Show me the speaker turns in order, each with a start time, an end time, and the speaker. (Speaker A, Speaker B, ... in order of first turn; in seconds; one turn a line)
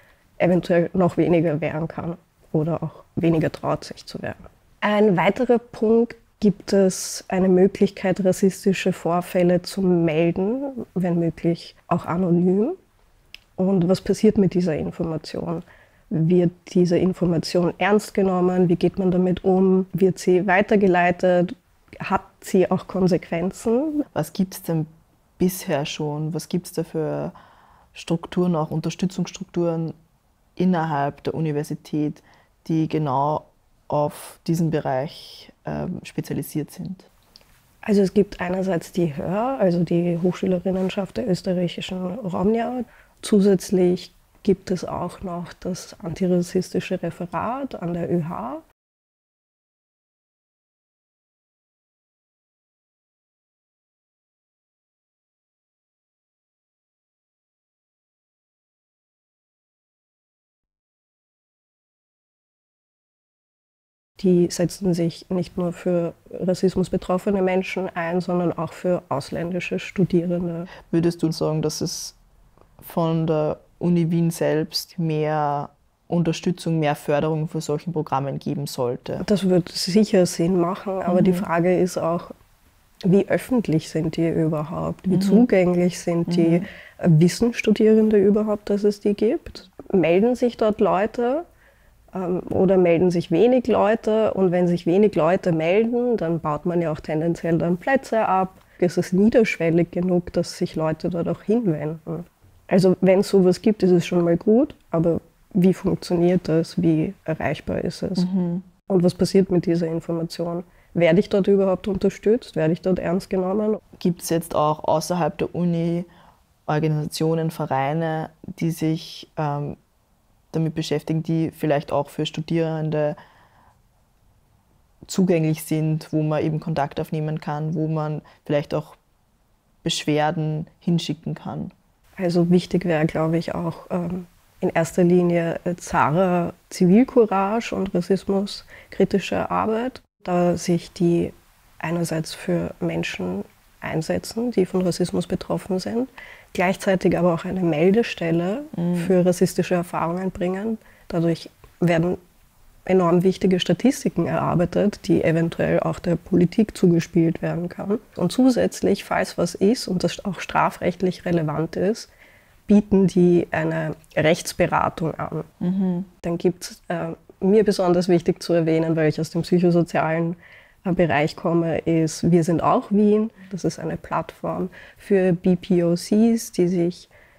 Speaker A: 0.4-12.8
Speaker A: 13.6-24.0
Speaker B: 24.1-27.3
Speaker B: 27.9-29.9
Speaker B: 30.6-37.1
Speaker A: 37.8-48.6
Speaker A: 64.2-70.7
Speaker B: 70.9-72.2
Speaker B: 72.8-79.2
Speaker A: 79.2-82.3
Speaker B: 81.1-81.5
Speaker A: 83.0-91.5
Speaker B: 85.1-85.5
Speaker B: 86.3-86.7
Speaker A: 92.1-108.2
Speaker B: 108.2-108.7
Speaker A: 108.9-113.8
Speaker B: 114.0-116.1
Speaker B: 116.7-119.8
Speaker B: 120.5-123.2
Speaker B: 125.1-129.0
Speaker B: 129.8-131.7
Speaker A: 132.2-152.2
Speaker B: 148.8-149.1
Speaker A: 152.8-162.1
Speaker A: 162.7-165.5
Speaker B: 165.6-166.1
Speaker A: 166.2-177.1